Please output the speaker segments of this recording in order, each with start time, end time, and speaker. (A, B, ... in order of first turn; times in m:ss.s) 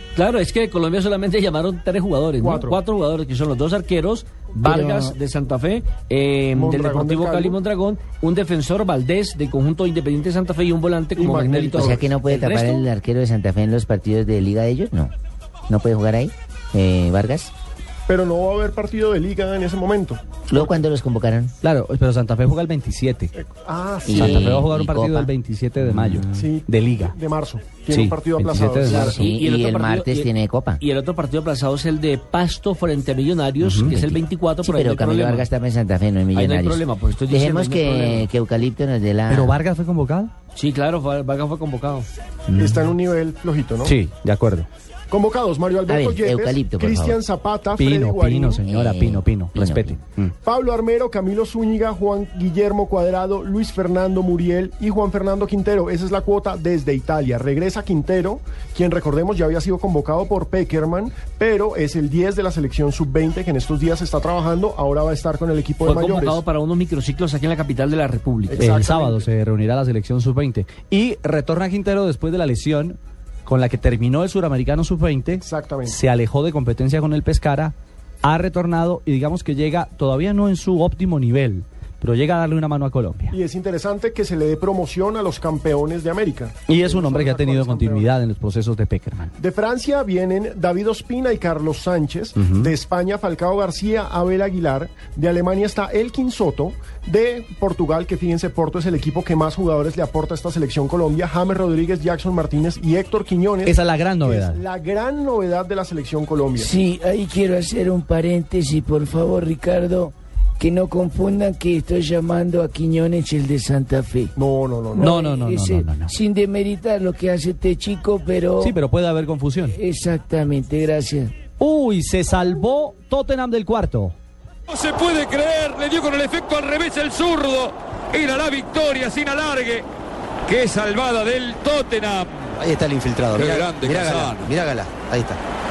0:00.2-0:12.9 A
0:02.4-0:02.8 B
0:04.7-0:05.1 C
0:06.6-0:07.6 B
0:11.2-0:12.1 B
0:11.8-0:15.1 C
0:15.7-0:17.5 C
0:18.1-0:20.8 B
0:20.5-0:21.5 C
0:21.6-0:23.3 D
0:23.4-0:24.6 B
0:24.0-0:26.4 C
0:24.1-0:27.2 D
0:26.3-0:29.2 B
0:27.9-0:29.2 D
0:28.8-0:35.5 A
0:29.1-0:30.8 C
0:33.6-0:33.9 D
0:33.9-0:39.6 C
0:36.3-0:38.3 A
0:39.3-0:40.3 D
0:40.6-0:42.1 A
0:42.5-0:44.0 B
0:43.8-0:44.7 D
0:45.1-0:48.6 B
0:45.9-0:47.2 C
0:47.8-0:50.3 D
0:48.6-0:50.0 C
0:50.4-1:06.4 B
1:05.8-1:08.7 A
1:08.5-1:09.3 B
1:08.6-1:23.4 D
1:15.4-1:16.0 B
1:23.3-1:28.1 B
1:26.7-1:29.3 D
1:29.4-1:46.7 B
1:32.4-1:32.7 D
1:43.6-1:44.6 D
1:46.6-1:54.3 E
1:54.4-1:55.2 B
1:55.0-1:56.2 D
1:55.0-1:58.8 E
1:58.6-1:59.8 D
1:59.7-2:01.3 E
2:01.6-2:04.2 D
2:04.7-2:09.9 F
2:10.5-2:12.4 F
2:12.6-2:15.4 G
2:13.4-2:14.5 F